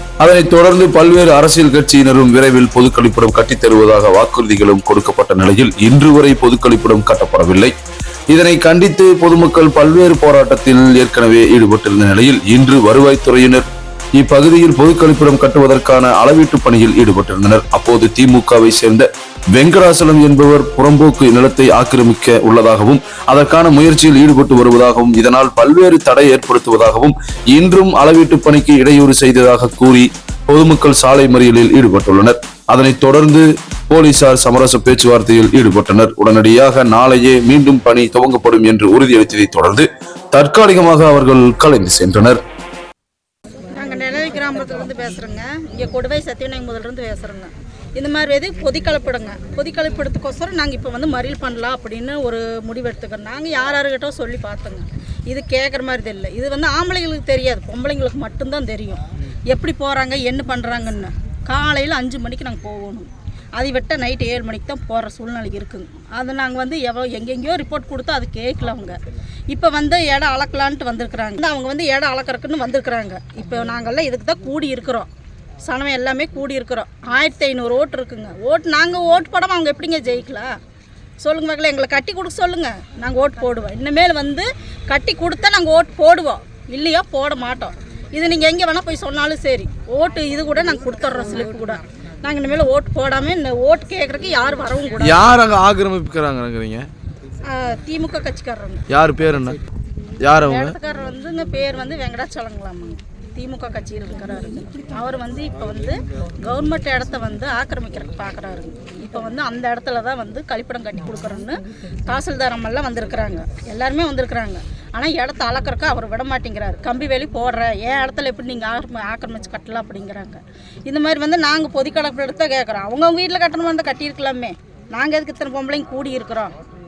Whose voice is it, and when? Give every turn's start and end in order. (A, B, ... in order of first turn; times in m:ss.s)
0:00.2-0:07.7 A
0:08.3-0:42.4 A
0:43.7-1:09.0 B
1:09.5-1:15.1 B
1:15.6-1:20.5 B
1:21.2-1:35.3 B
1:35.0-1:36.9 C
1:37.5-1:38.8 B
1:38.9-1:39.6 C
1:40.2-1:40.8 C
1:40.4-2:06.5 B